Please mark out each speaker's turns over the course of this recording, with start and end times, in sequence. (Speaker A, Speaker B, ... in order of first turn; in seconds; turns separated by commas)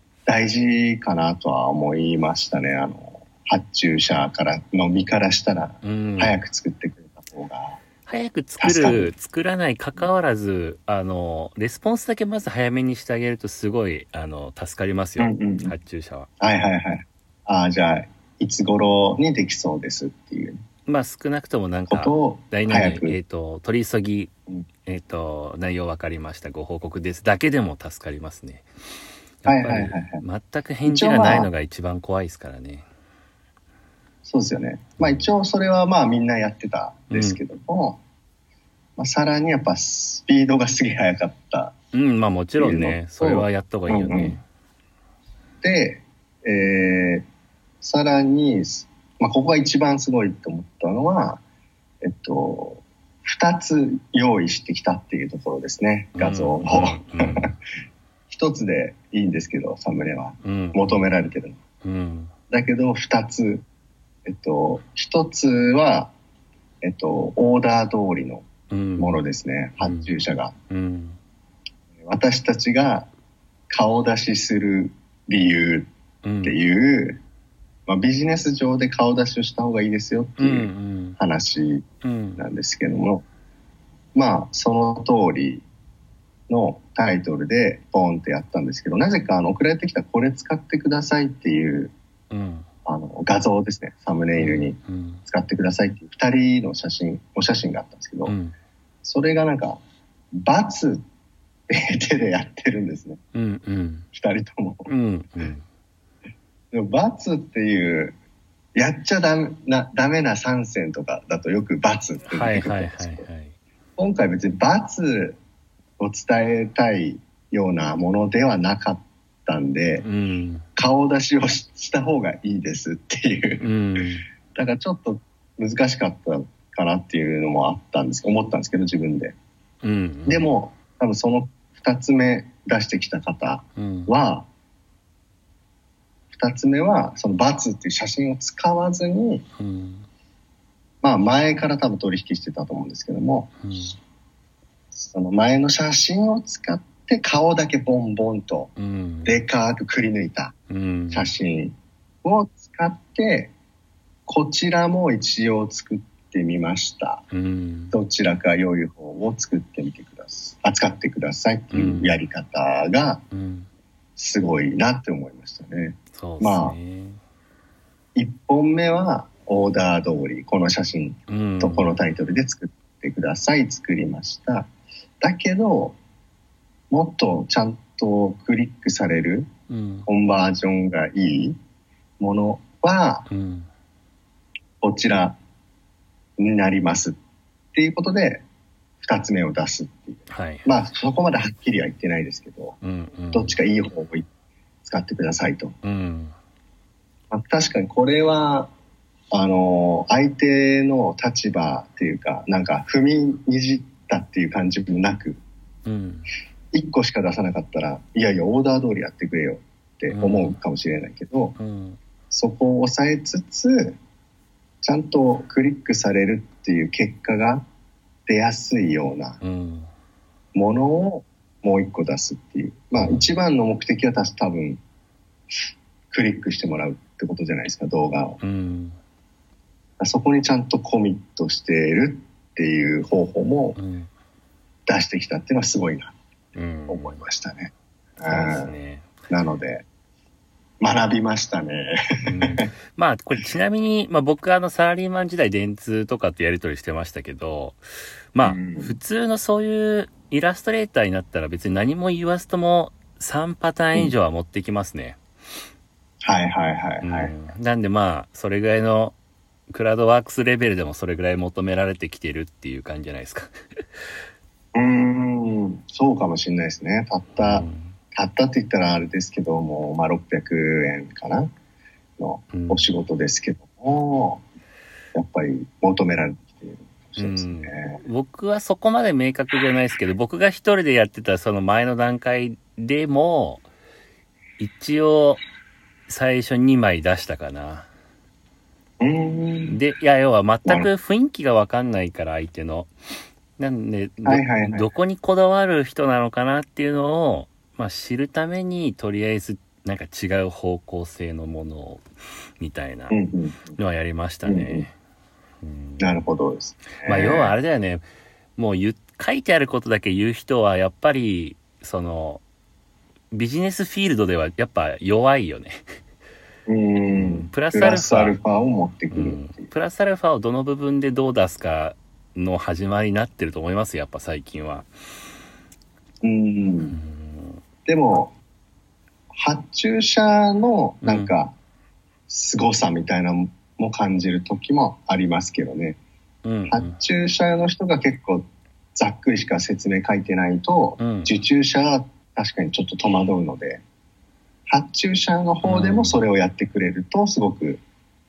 Speaker A: 0.3-7.8, Speaker B: 5.8-6.4, Speaker B: 8.1-16.3, Speaker A: 8.6-9.1, Speaker A: 15.2-15.8, Speaker A: 16.4-20.6, Speaker B: 20.9-24.3, Speaker A: 21.9-23.2, Speaker B: 24.9-28.7, Speaker B: 29.4-32.9, Speaker A: 29.5-30.2, Speaker A: 30.9-31.5, Speaker A: 34.2-38.0, Speaker B: 35.0-35.3, Speaker B: 37.1-37.4, Speaker A: 39.0-41.8, Speaker B: 41.9-44.4, Speaker A: 42.6-44.4, Speaker A: 45.6-47.3, Speaker A: 47.8-51.4, Speaker A: 52.0-57.5, Speaker B: 56.1-57.6, Speaker A: 58.3-61.6, Speaker B: 60.4-61.1, Speaker B: 61.8-62.3, Speaker A: 62.5-63.6, Speaker A: 64.3-66.1, Speaker A: 66.8-70.5, Speaker B: 68.7-69.2, Speaker B: 69.8-70.1, Speaker B: 70.7-71.2, Speaker A: 72.0-73.1, Speaker A: 73.7-75.9, Speaker B: 76.2-76.6, Speaker A: 76.4-77.2, Speaker A: 77.9-83.2, Speaker B: 80.4-81.2, Speaker B: 82.0-82.4, Speaker A: 84.2-85.7, Speaker A: 86.5-91.9, Speaker B: 92.3-92.7, Speaker A: 92.9-98.3, Speaker B: 94.4-95.2, Speaker B: 98.3-98.5, Speaker A: 99.0-99.8, Speaker A: 100.3-101.0, Speaker A: 101.7-103.2, Speaker B: 103.3-104.1, Speaker A: 104.1-104.9, Speaker B: 104.9-105.6, Speaker A: 106.7-108.2, Speaker A: 108.8-113.3, Speaker B: 112.3-113.5, Speaker A: 114.0-115.4, Speaker A: 116.0-120.1, Speaker B: 120.0-120.7, Speaker A: 120.8-123.7, Speaker B: 123.6-124.3, Speaker A: 124.5-129.4, Speaker B: 129.8-130.5, Speaker A: 130.3-134.5, Speaker B: 133.8-134.1, Speaker A: 136.3-139.5, Speaker B: 139.6-140.1, Speaker A: 141.0-143.8, Speaker B: 143.6-144.0, Speaker A: 144.9-148.7, Speaker B: 148.8-149.4, Speaker A: 149.2-150.6, Speaker B: 150.7-151.3, Speaker A: 151.1-153.5, Speaker A: 154.3-157.2, Speaker B: 157.3-157.9, Speaker A: 157.9-163.2, Speaker B: 161.7-162.2, Speaker B: 163.3-163.7, Speaker A: 164.2-166.8, Speaker B: 166.1-167.2, Speaker A: 168.2-174.7, Speaker B: 171.3-171.9, Speaker A: 175.2-176.0, Speaker A: 176.9-179.5, Speaker B: 179.7-180.1, Speaker A: 180.1-181.6, Speaker A: 182.2-183.3, Speaker B: 183.3-183.7, Speaker A: 184.8-185.4, Speaker A: 186.4-187.2, Speaker A: 187.7-188.4, Speaker A: 189.0-192.8, Speaker B: 190.3-190.7, Speaker B: 192.8-193.6, Speaker A: 193.3-194.3, Speaker A: 194.8-195.8, Speaker B: 195.8-196.3, Speaker A: 197.3-198.7, Speaker A: 199.3-205.4, Speaker B: 205.9-206.3, Speaker A: 206.7-211.6, Speaker B: 210.1-210.6, Speaker B: 211.6-212.0, Speaker A: 212.3-214.0, Speaker A: 214.8-217.7, Speaker A: 218.3-219.4, Speaker B: 219.4-219.9, Speaker A: 220.5-224.8, Speaker B: 223.0-223.3, Speaker A: 226.1-228.4, Speaker B: 228.4-229.0, Speaker A: 230.0-233.8, Speaker B: 233.8-234.1, Speaker A: 234.9-236.2, Speaker B: 236.6-237.2, Speaker A: 236.9-238.7, Speaker B: 238.2-239.1, Speaker A: 239.3-239.9, Speaker A: 240.8-242.7, Speaker B: 242.2-247.8, Speaker B: 248.3-255.2, Speaker A: 248.4-249.0, Speaker A: 256.2-257.3, Speaker B: 257.0-259.2, Speaker B: 259.7-263.5, Speaker A: 264.8-271.5, Speaker B: 267.4-267.9, Speaker A: 272.2-274.4, Speaker B: 272.5-272.9, Speaker A: 275.1-278.0, Speaker B: 277.2-283.7, Speaker B: 284.6-285.4, Speaker B: 286.1-287.9, Speaker A: 289.0-289.8, Speaker B: 289.7-292.9, Speaker B: 293.6-302.0, Speaker A: 294.2-294.9, Speaker B: 302.6-303.2, Speaker A: 303.1-303.8, Speaker B: 303.8-304.9, Speaker A: 304.4-304.9, Speaker B: 305.6-306.2, Speaker A: 306.0-307.6, Speaker B: 307.1-308.0, Speaker B: 308.6-312.4, Speaker B: 313.3-315.8, Speaker A: 316.7-319.7, Speaker B: 317.1-318.4, Speaker B: 319.1-324.9, Speaker A: 326.2-327.0, Speaker B: 326.9-327.6, Speaker A: 327.9-328.4, Speaker A: 329.3-331.6, Speaker B: 331.0-331.3, Speaker A: 332.3-336.0, Speaker B: 336.4-336.9, Speaker A: 336.7-343.8, Speaker B: 341.0-341.3, Speaker A: 344.7-347.8, Speaker B: 345.6-346.2